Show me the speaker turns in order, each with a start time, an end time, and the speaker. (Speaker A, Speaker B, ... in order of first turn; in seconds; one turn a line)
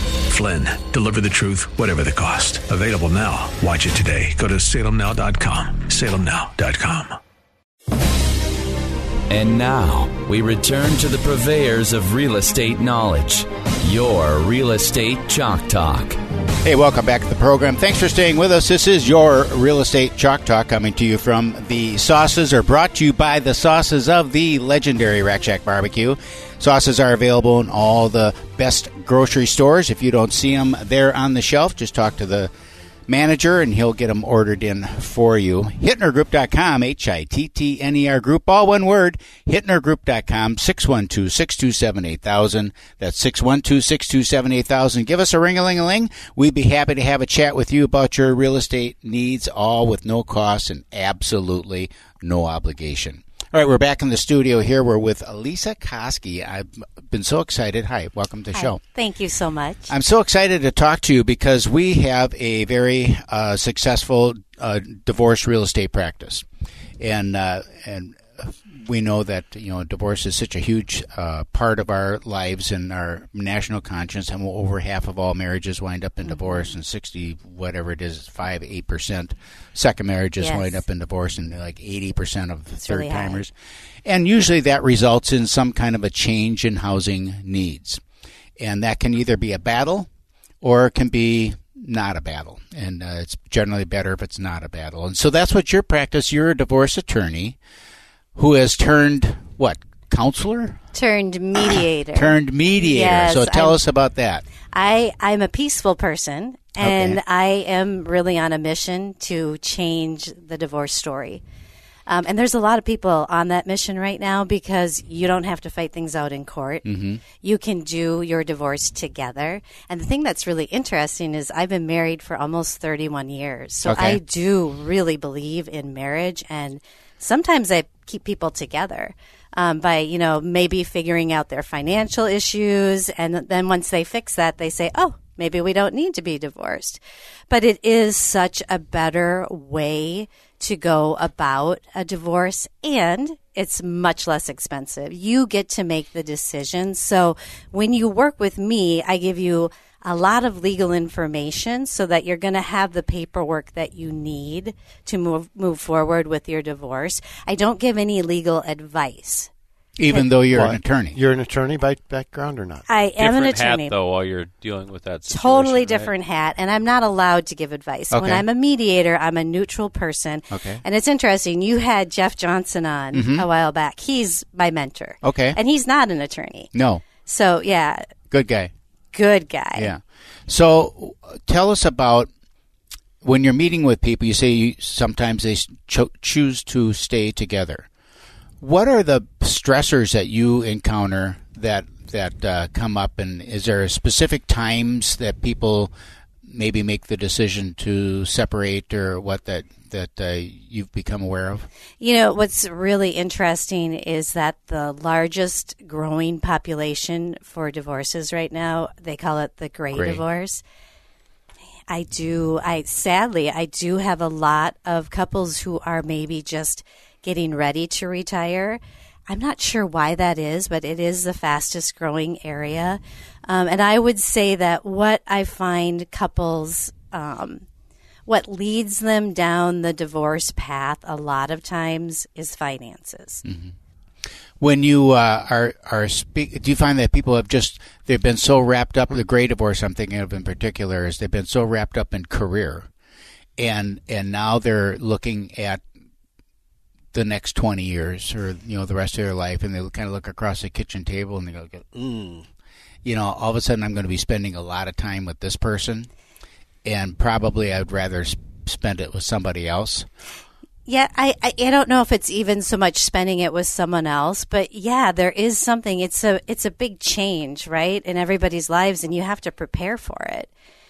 Speaker A: 0.3-7.2
Speaker B: 9.3-16.2
Speaker C: 16.6-32.5
Speaker C: 33.1-58.8
Speaker D: 58.5-59.9
Speaker C: 59.9-66.5
Speaker C: 67.0-83.5
Speaker D: 76.3-76.7
Speaker D: 80.4-80.8
Speaker D: 82.8-83.5
Speaker C: 84.1-88.0
Speaker C: 88.6-90.1
Speaker C: 90.6-97.6
Speaker C: 98.4-100.8
Speaker D: 100.9-103.8
Speaker C: 101.7-104.5
Speaker D: 104.7-111.4
Speaker C: 106.8-107.2
Speaker D: 112.1-116.8
Speaker C: 116.8-117.2
Speaker D: 117.4-159.5
Speaker C: 123.9-124.2
Speaker C: 160.0-161.2
Speaker E: 160.5-162.8
Speaker D: 162.9-164.0
Speaker F: 163.2-166.1
Speaker D: 165.3-176.7
Speaker C: 168.1-168.4
Speaker C: 170.5-170.8
Speaker C: 173.1-173.5
Speaker C: 175.2-175.6
Speaker C: 176.7-177.0
Speaker D: 177.2-178.1
Speaker C: 178.3-178.7
Speaker D: 179.1-179.9
Speaker C: 179.8-182.3
Speaker C: 183.2-187.9
Speaker C: 188.6-195.9
Speaker C: 196.5-201.7
Speaker D: 202.0-210.6
Speaker C: 209.9-210.2
Speaker D: 211.9-227.7
Speaker D: 228.3-233.4
Speaker C: 233.4-233.7
Speaker C: 234.6-242.9
Speaker C: 243.6-245.8
Speaker C: 247.1-252.5
Speaker C: 253.1-256.1
Speaker C: 256.9-260.1
Speaker D: 260.9-270.5